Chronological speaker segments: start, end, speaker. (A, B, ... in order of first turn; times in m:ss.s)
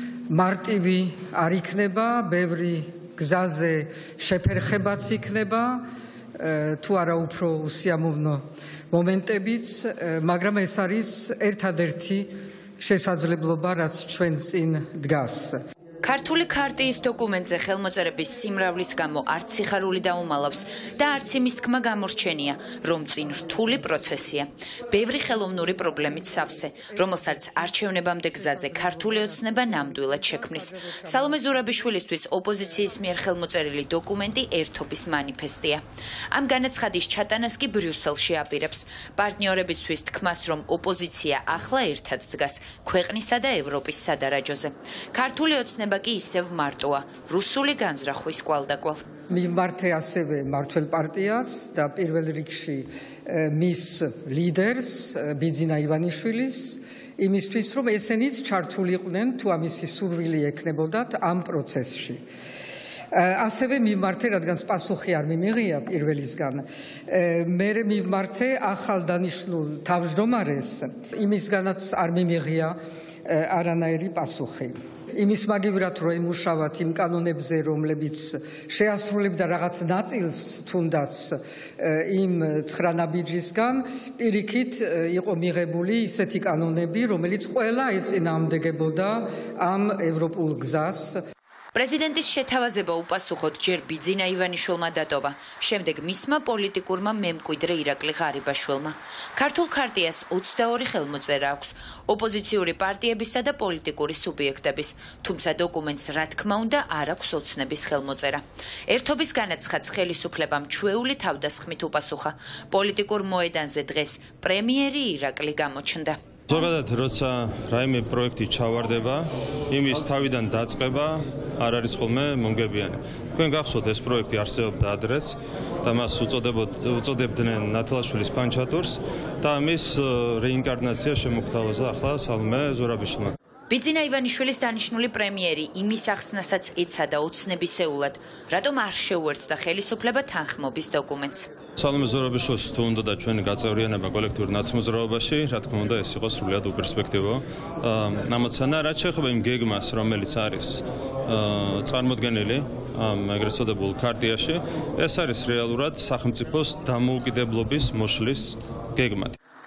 0:00.3-0:05.8 A
0:06.4-0:15.6 A
0:16.0-0:49.0 B
0:30.2-0:31.1 A
0:49.3-1:02.2 A
1:03.1-1:31.2 A
1:31.7-1:56.2 B
1:56.5-2:13.3 C
2:13.7-2:21.5 B
2:21.8-2:39.4 C